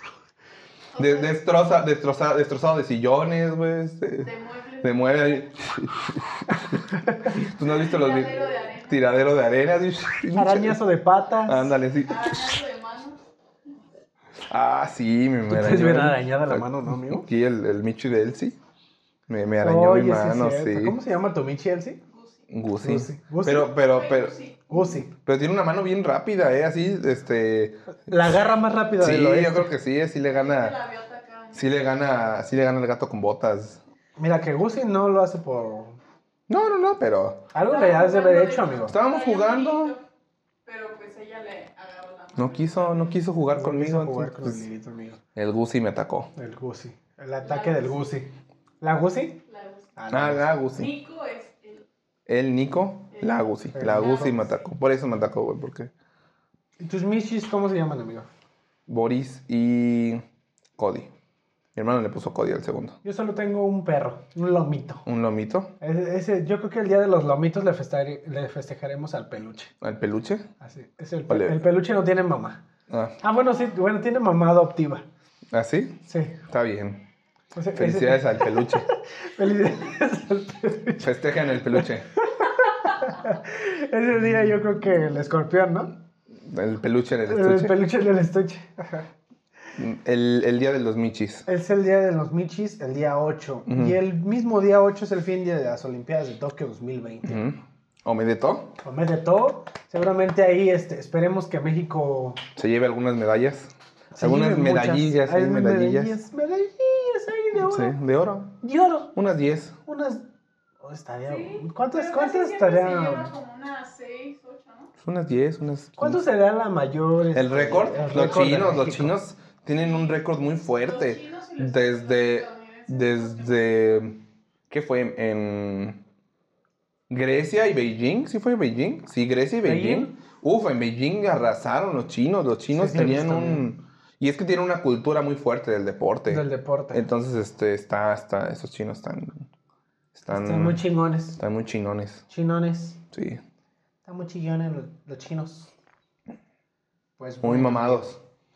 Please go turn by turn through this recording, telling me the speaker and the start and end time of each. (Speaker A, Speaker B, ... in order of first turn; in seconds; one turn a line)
Speaker A: 0.9-1.4
Speaker B: 1.0-4.3
Speaker A: 4.2-5.5
Speaker B: 4.8-10.8
Speaker A: 7.6-9.2
Speaker C: 10.3-11.8
Speaker B: 11.4-12.5
Speaker A: 12.0-13.2
Speaker B: 14.5-18.6
Speaker C: 15.5-17.3
Speaker B: 19.3-20.9
Speaker C: 19.6-22.0
Speaker A: 22.1-22.4
Speaker B: 22.5-24.4
Speaker C: 22.8-23.7
Speaker A: 23.9-24.8
Speaker C: 24.7-25.1
Speaker B: 25.2-28.2
Speaker C: 28.1-29.7
Speaker B: 29.0-30.8
Speaker A: 30.3-31.7
Speaker B: 31.5-33.8
Speaker C: 34.2-36.0
Speaker B: 36.5-37.4
Speaker C: 37.5-39.0
Speaker A: 37.6-40.0
Speaker B: 38.9-39.9
Speaker A: 40.6-43.2
Speaker B: 42.4-44.6
Speaker C: 43.5-45.2
Speaker B: 45.4-46.3
Speaker C: 46.3-49.4
Speaker A: 47.4-48.0
Speaker A: 49.5-49.9
Speaker C: 50.0-50.5
Speaker B: 50.1-50.9
Speaker A: 50.7-51.9
Speaker B: 52.3-55.9
Speaker A: 53.1-54.5
Speaker C: 53.7-54.5
Speaker C: 56.8-58.3
Speaker B: 58.9-60.2
Speaker B: 60.8-61.1
Speaker B: 61.7-63.0
Speaker C: 63.0-65.0
Speaker B: 65.0-65.7
Speaker C: 65.8-69.7
Speaker B: 69.8-70.5
Speaker C: 70.6-72.6
Speaker B: 71.3-71.6
Speaker B: 72.9-73.2
Speaker C: 73.2-75.0
Speaker B: 75.5-77.0
Speaker C: 76.0-76.4
Speaker C: 77.5-81.2
Speaker B: 77.8-78.8
Speaker B: 81.0-82.1
Speaker C: 81.7-85.9
Speaker B: 86.4-87.7
Speaker C: 87.2-89.1
Speaker B: 89.8-91.4
Speaker C: 91.5-97.4
Speaker B: 93.7-94.0
Speaker B: 97.2-98.8
Speaker C: 98.8-102.4
Speaker B: 102.5-106.1
Speaker C: 104.1-108.0
Speaker B: 107.6-108.6
Speaker C: 108.6-109.1
Speaker B: 109.1-109.8
Speaker C: 109.8-110.3
Speaker C: 110.8-113.3
Speaker A: 111.3-114.9
Speaker B: 115.0-116.2
Speaker C: 116.0-119.2
Speaker B: 117.3-126.0
Speaker A: 120.8-123.8
Speaker B: 127.1-139.5
Speaker C: 129.6-130.1
Speaker C: 132.7-133.7
Speaker C: 136.3-137.0
Speaker B: 140.1-140.8
Speaker C: 140.3-141.4
Speaker B: 141.4-142.2
Speaker C: 142.3-143.0
Speaker B: 143.1-143.4
Speaker C: 144.0-145.7
Speaker C: 147.2-148.1
Speaker B: 147.4-148.2